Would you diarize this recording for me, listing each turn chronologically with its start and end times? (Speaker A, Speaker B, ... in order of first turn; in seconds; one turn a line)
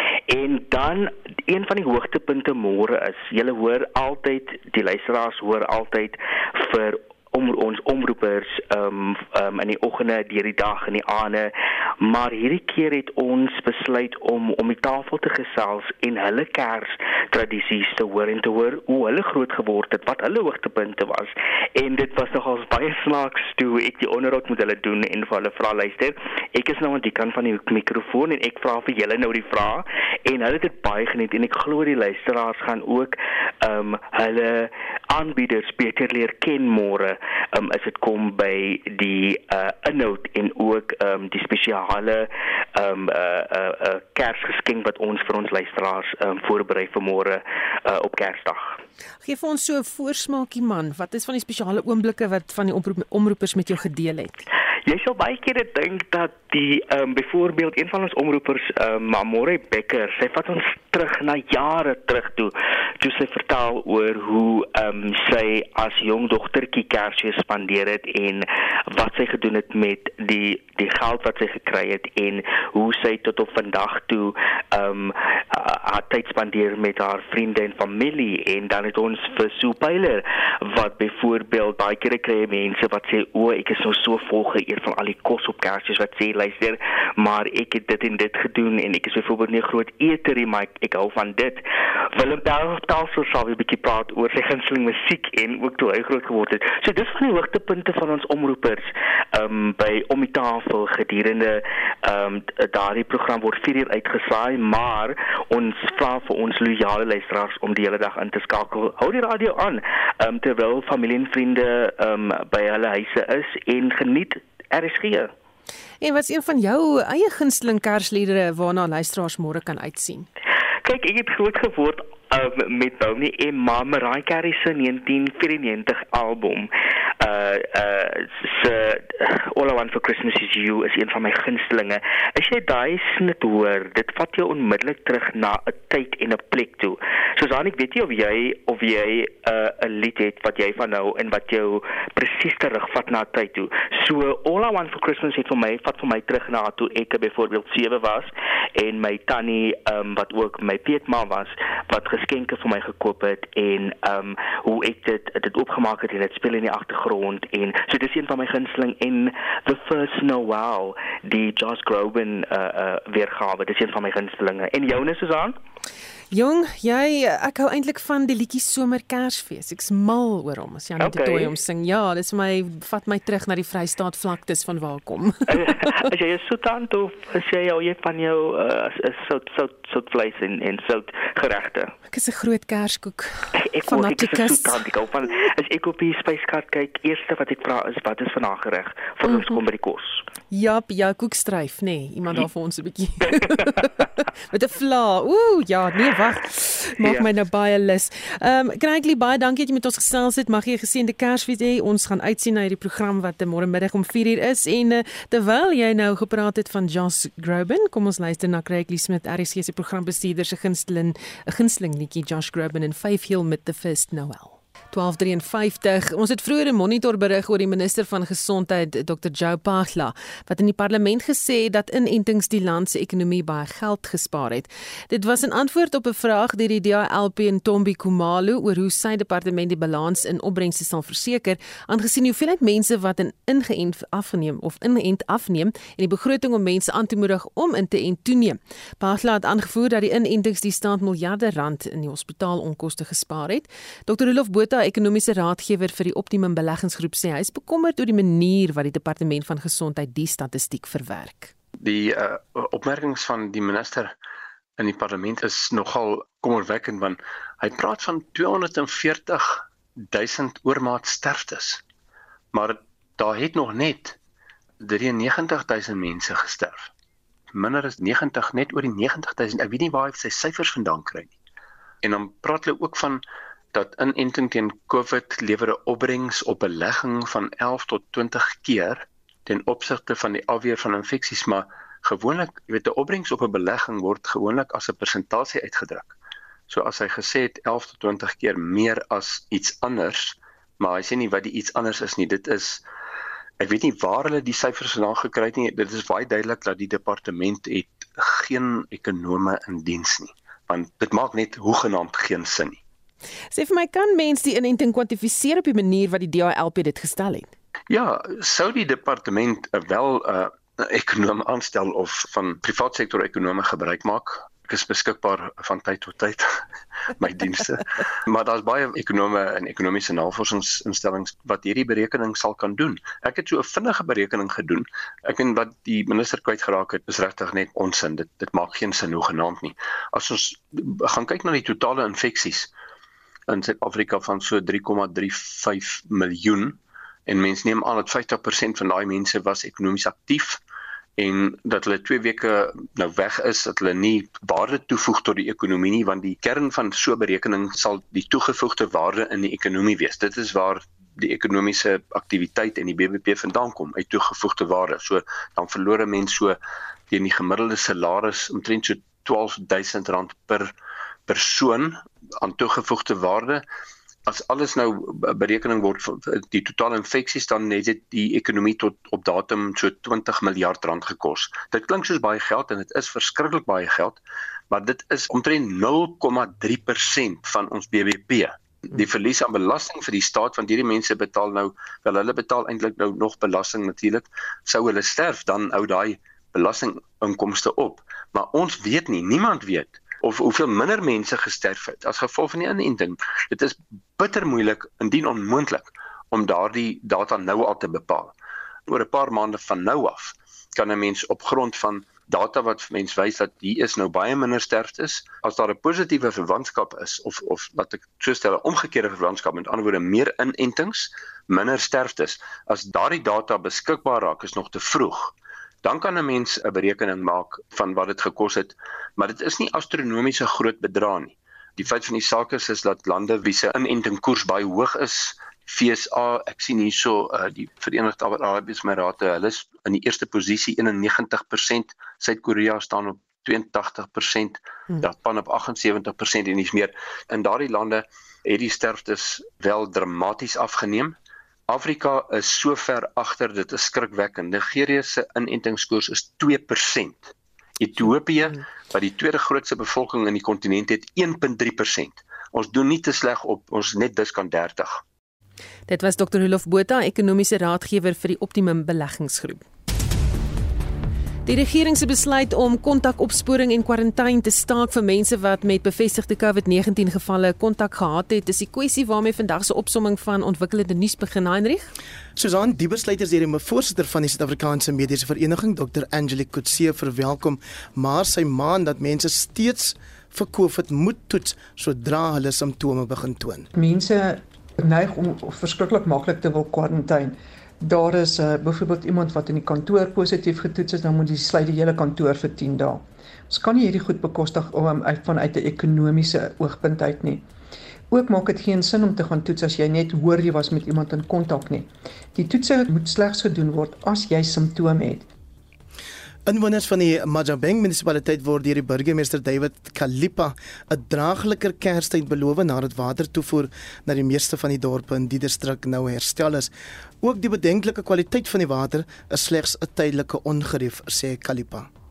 Speaker A: 0.3-48.8
Speaker B: 49.2-54.4
Speaker A: 54.9-115.3
Speaker B: 116.0-120.3
Speaker A: 120.8-165.6
Speaker B: 166.3-176.0
Speaker A: 171.0-171.5
Speaker A: 175.5-181.9
Speaker B: 182.1-184.8
Speaker A: 183.6-190.2
Speaker B: 189.3-189.5
Speaker B: 190.5-193.9
Speaker A: 193.2-194.1
Speaker B: 194.5-251.5
Speaker A: 197.0-197.3
Speaker C: 251.8-254.1
Speaker C: 254.8-261.8
Speaker C: 262.5-264.2
Speaker C: 264.8-266.9
Speaker C: 267.5-271.3
Speaker C: 272.0-273.2
Speaker C: 273.7-286.1
Speaker C: 286.7-292.8
Speaker C: 293.6-302.8
Speaker B: 303.5-307.5
Speaker C: 307.9-316.5
Speaker C: 317.2-332.7
Speaker C: 333.5-340.6
Speaker C: 341.2-356.6
Speaker C: 357.1-360.7
Speaker C: 361.3-363.6
Speaker C: 364.2-398.3
Speaker C: 398.9-441.1
Speaker C: 441.7-455.0
Speaker B: 455.9-459.6
Speaker B: 461.4-471.9
Speaker D: 472.4-483.7
Speaker E: 483.7-497.5
Speaker E: 498.1-505.3
Speaker D: 506.5-516.7
Speaker D: 517.2-521.9